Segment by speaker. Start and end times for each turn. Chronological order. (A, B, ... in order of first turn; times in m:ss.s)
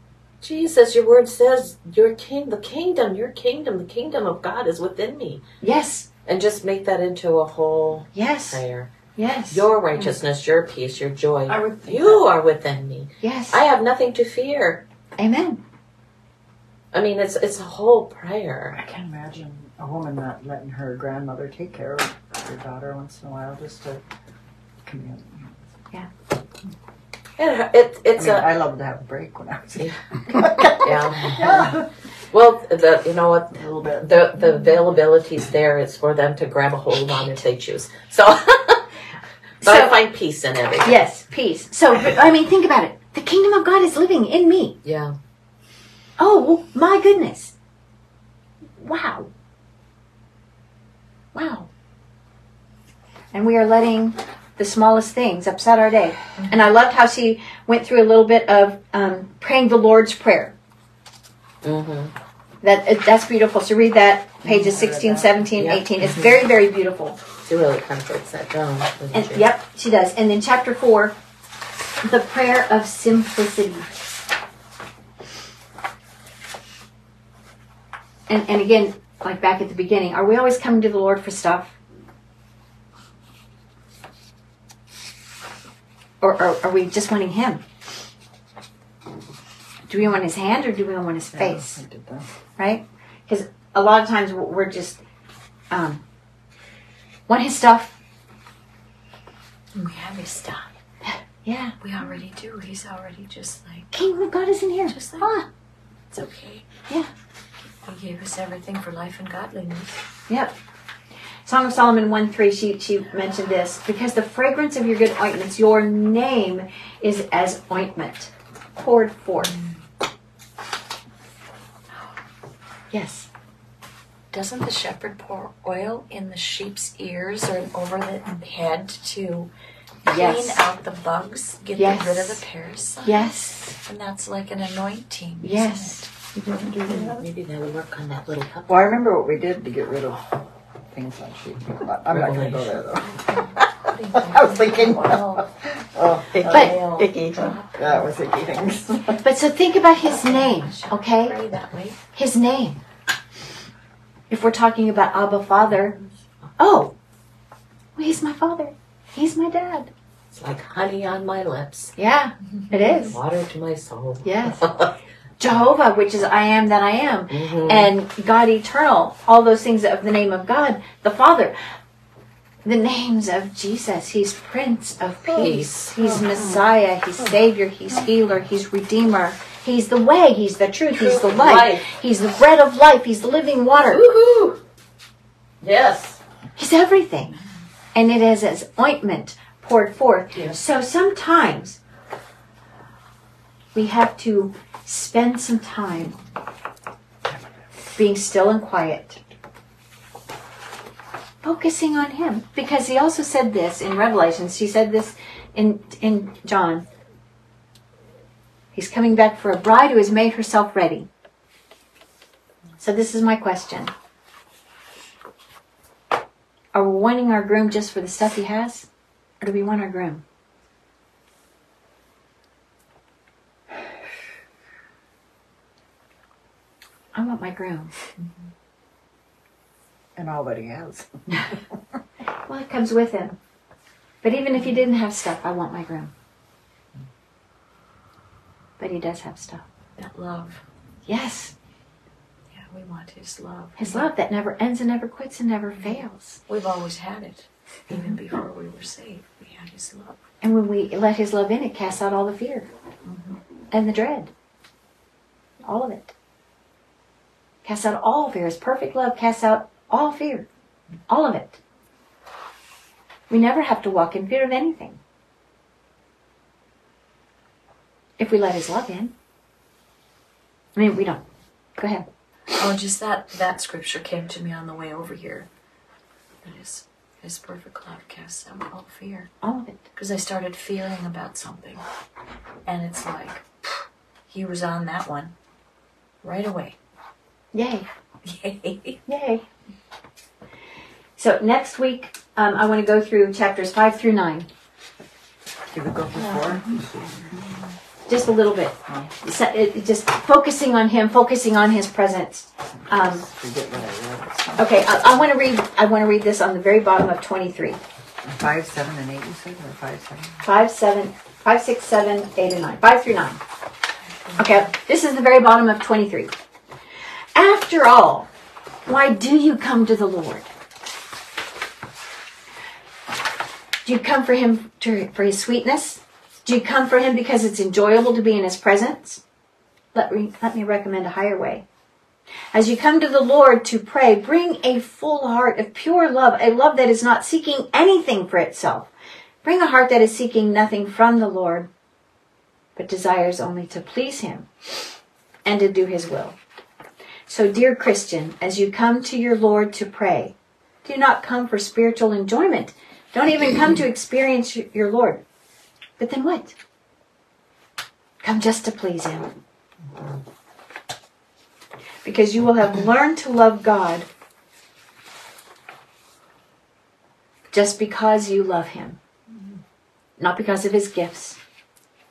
0:00.4-0:05.4 A
0:05.6-0:06.1 B
0:06.3-0:08.9 A
0:08.1-0:08.6 B
0:09.2-0:10.2 B
0:09.5-0:14.8 A
0:11.5-0:12.2 C
0:13.2-0:13.6 B
0:15.2-0:15.6 B
0:16.9-0:18.8 A
0:18.8-0:24.0 C
0:24.8-0:25.6 C
0:27.4-0:28.5 A
0:28.2-0:31.9 C
0:30.7-0:38.9 A
0:33.6-0:34.1 C
0:39.6-0:40.0 B
0:39.6-0:41.0 A
0:40.8-0:44.8 B
0:44.8-0:45.2 A
0:46.2-0:47.5 B
0:48.8-0:49.3 B
0:51.3-0:51.7 B
0:53.3-1:00.6 B
1:01.6-1:02.1 A
1:02.6-1:07.2 B
1:04.4-1:05.4 C
1:05.6-1:06.5 A
1:07.5-1:09.5 A
1:09.1-1:11.2 B
1:12.0-1:13.9 B
1:18.3-1:21.8 B
1:26.2-1:27.6 B
1:29.9-1:31.8 B
1:31.3-1:32.3 C
1:32.6-1:35.0 B
1:35.7-1:36.0 B
1:37.3-1:38.0 B
1:39.7-1:40.7 D
1:41.1-1:41.8 B
1:41.8-1:43.9 D
1:43.9-1:45.5 B
1:44.8-1:45.3 D
1:46.1-1:46.7 D
1:47.8-1:50.0 D
1:50.3-1:50.5 B
1:51.5-1:59.6 B
1:59.4-1:59.8 D
2:02.9-2:03.3 B
2:04.3-2:09.5 D
2:10.0-2:16.1 D
2:10.1-2:10.7 B
2:11.8-2:12.4 B
2:13.0-2:13.8 B
2:15.4-2:16.1 B
2:16.3-2:17.2 E
2:16.9-2:18.8 A
2:18.7-2:20.4 C
2:20.9-2:27.0 C
2:22.1-2:22.7 A
2:23.0-2:25.5 D
2:26.3-2:27.6 E
2:26.5-2:28.1 D
2:26.5-2:26.8 B
2:27.7-2:29.2 C
2:29.2-2:31.4 B
2:30.0-2:32.0 D
2:32.1-2:32.8 B
2:34.3-2:36.0 B
2:36.6-2:37.0 B
2:38.0-2:39.9 B
2:40.3-2:42.0 A
2:42.0-2:43.2 B
2:43.1-2:44.9 A
2:44.2-2:44.9 B
2:45.4-2:51.6 B
2:47.3-2:47.9 A
2:52.6-3:04.0 B
2:55.4-2:56.5 A
3:00.9-3:01.9 A
3:03.8-3:04.6 A
3:05.6-3:06.2 A
3:06.6-3:07.4 B
3:07.9-3:11.8 B
3:13.8-3:16.2 B
3:18.0-3:19.2 B
3:21.4-3:26.9 B
3:28.7-3:31.1 B
3:32.8-3:33.9 B
3:36.7-3:38.9 B
3:39.4-3:40.2 B
3:47.2-3:47.9 B
3:50.2-3:51.1 C
3:52.5-3:53.4 B
3:54.2-3:56.1 B
3:58.8-3:59.6 B
4:00.0-4:00.7 D
4:01.1-4:01.6 B
4:02.5-4:04.1 D
4:03.8-4:06.4 B
4:06.5-4:10.2 D
4:10.4-4:12.7 B
4:13.1-4:13.4 D
4:13.7-4:14.3 B
4:15.6-4:16.1 B
4:17.6-4:20.5 B
4:21.1-4:21.6 B
4:23.3-4:25.0 B
4:28.2-4:29.1 B
4:30.8-4:31.2 B
4:31.8-4:32.0 B
4:32.6-4:35.5 D
4:36.4-4:39.3 D
4:39.4-4:39.8 B
4:39.9-4:41.8 D
4:42.6-4:43.5 D
4:44.3-4:45.4 D
4:46.2-4:46.8 D
4:47.5-4:47.9 B
4:48.2-4:49.0 D
4:49.1-4:49.4 B
4:51.2-4:54.5 B
4:55.7-4:57.6 C
4:56.2-4:56.6 D
4:58.1-5:03.2 B
4:58.9-4:59.1 C
5:02.9-5:04.9 C
5:04.6-5:07.8 B
5:08.2-5:10.4 C
5:10.4-5:13.4 B
5:14.2-5:14.7 D
5:14.4-5:16.3 B
5:17.4-5:18.3 B
5:18.9-5:20.5 B
5:23.8-5:29.2 B
5:29.9-5:31.6 B
5:32.5-5:38.9 B
5:39.4-5:41.7 B
5:42.8-5:44.5 B
5:45.4-5:46.4 B
5:47.3-5:55.2 B
5:56.0-5:56.6 B
5:58.2-5:59.3 B
6:02.0-6:04.1 B
6:07.5-6:09.0 B
6:10.2-6:11.4 B